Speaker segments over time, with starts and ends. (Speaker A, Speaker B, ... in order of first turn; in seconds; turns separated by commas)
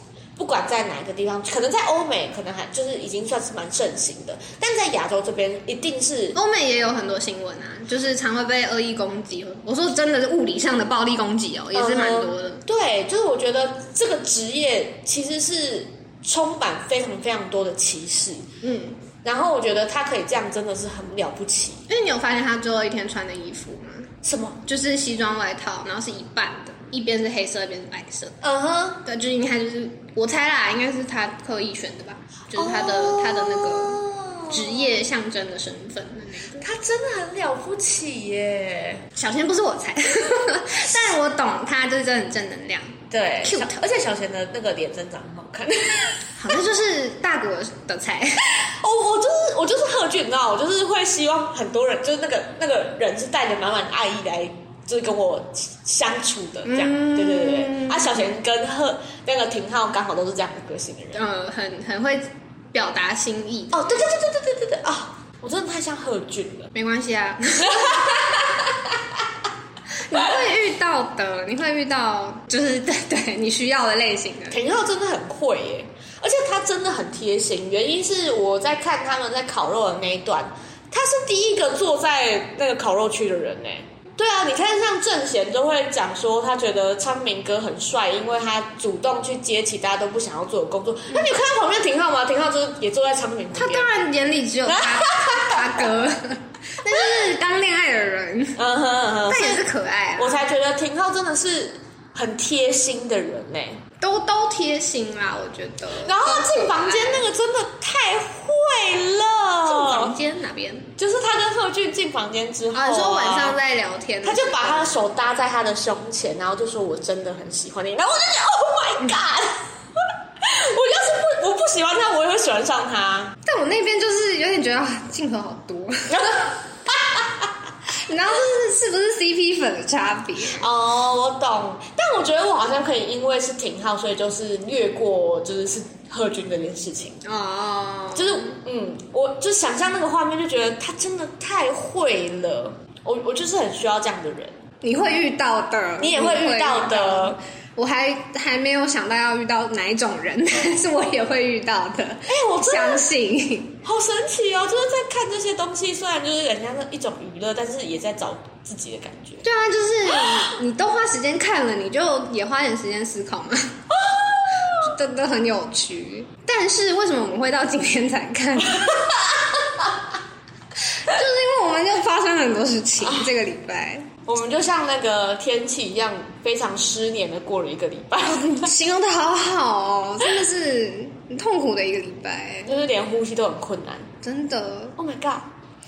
Speaker A: 0.4-6.4, Speaker B: 6.3-12.6, Speaker A: 11.7-18.4, Speaker B: 18.6-19.0, Speaker A: 19.2-21.8, Speaker B: 21.9-24.1, Speaker A: 24.2-24.6, Speaker B: 24.6-28.4, Speaker A: 28.4-29.0, Speaker B: 29.0-36.7, Speaker A: 32.5-34.8, Speaker A: 36.6-39.0, Speaker B: 39.1-43.8, Speaker A: 43.1-46.2, Speaker B: 46.4-48.5, Speaker A: 48.5-61.2, Speaker B: 56.6-58.2, Speaker B: 61.1-64.1, Speaker A: 63.7-66.7, Speaker B: 66.7-68.4, Speaker A: 67.6-69.0, Speaker B: 70.0-74.6, Speaker A: 74.5-93.9, Speaker B: 93.5-98.6, Speaker A: 94.7-95.9, Speaker A: 96.9-97.3, Speaker A: 98.6-103.8, Speaker B: 99.3-100.5, Speaker B: 104.0-107.3, Speaker A: 106.0-110.2, Speaker B: 109.6-110.9, Speaker A: 111.0-113.6, Speaker B: 112.7-115.0, Speaker A: 114.2-123.3, Speaker B: 123.5-126.5, Speaker A: 126.1-127.5, Speaker B: 127.9-130.7, Speaker A: 130.5-137.2, Speaker B: 137.2-138.6, Speaker A: 138.1-144.6, Speaker B: 144.8-153.8, Speaker A: 146.0-147.4, Speaker A: 152.3-153.1, Speaker A: 153.8-159.4, Speaker B: 159.4-163.8, Speaker A: 160.1-160.5, Speaker A: 163.9-164.9, Speaker B: 164.5-169.0, Speaker A: 168.9-169.4, Speaker B: 170.9-174.1, Speaker A: 173.0-173.3, Speaker A: 174.2-178.7, Speaker B: 178.2-182.7, Speaker A: 182.7-184.1, Speaker B: 184.2-184.9, Speaker A: 184.9-185.5